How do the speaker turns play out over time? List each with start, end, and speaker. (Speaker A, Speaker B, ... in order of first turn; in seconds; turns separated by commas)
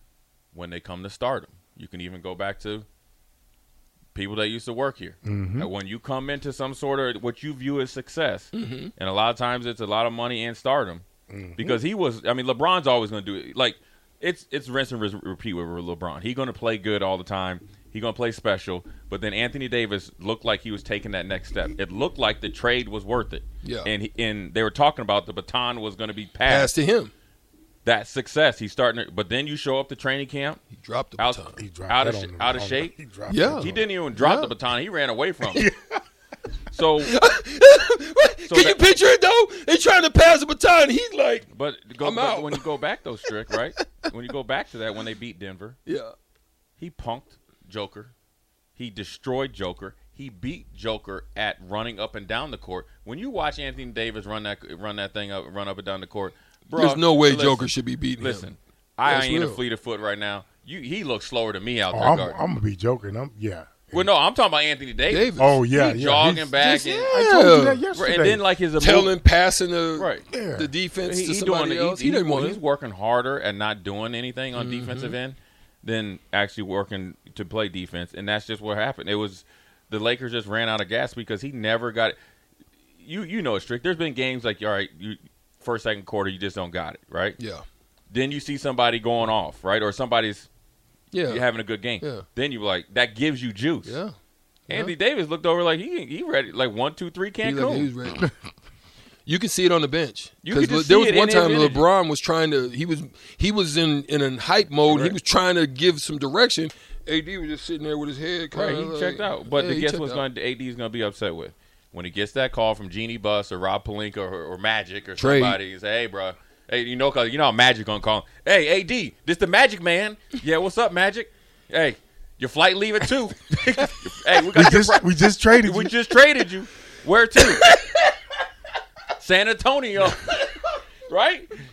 Speaker A: 0.5-2.9, Speaker A: 4.1-11.0, Speaker B: 5.2-5.7, Speaker C: 8.5-8.9, Speaker B: 11.3-11.8, Speaker A: 11.6-26.7, Speaker C: 23.6-23.9, Speaker C: 26.4-27.1, Speaker A: 27.8-30.6, Speaker C: 30.7-31.6, Speaker A: 31.2-33.0, Speaker B: 31.6-33.9, Speaker C: 33.3-34.5, Speaker A: 33.5-35.6, Speaker A: 36.7-37.1, Speaker C: 37.0-41.5, Speaker A: 38.4-38.8, Speaker A: 41.5-45.8, Speaker C: 42.0-42.7, Speaker C: 45.9-46.1, Speaker A: 46.8-48.1, Speaker A: 48.8-62.4, Speaker C: 56.7-58.5, Speaker C: 59.0-59.6, Speaker B: 61.9-64.1, Speaker A: 63.9-67.2, Speaker C: 65.1-65.6, Speaker B: 65.4-68.5, Speaker C: 67.1-67.8, Speaker A: 67.9-69.1, Speaker C: 68.8-72.6, Speaker A: 70.0-70.2, Speaker B: 70.3-70.7, Speaker A: 71.0-82.2, Speaker C: 74.5-75.2, Speaker A: 83.0-87.4, Speaker C: 87.4-87.6, Speaker A: 88.1-90.5, Speaker C: 91.1-91.5, Speaker A: 91.2-94.0, Speaker C: 92.0-92.2, Speaker C: 93.8-94.1, Speaker C: 94.7-94.9, Speaker A: 94.7-97.9, Speaker C: 97.4-98.3, Speaker C: 99.2-110.2, Speaker A: 100.4-101.9, Speaker A: 104.8-105.2, Speaker A: 108.5-125.0, Speaker C: 115.2-115.6, Speaker B: 124.4-125.9, Speaker A: 125.6-127.7, Speaker A: 129.2-130.5, Speaker A: 131.1-131.6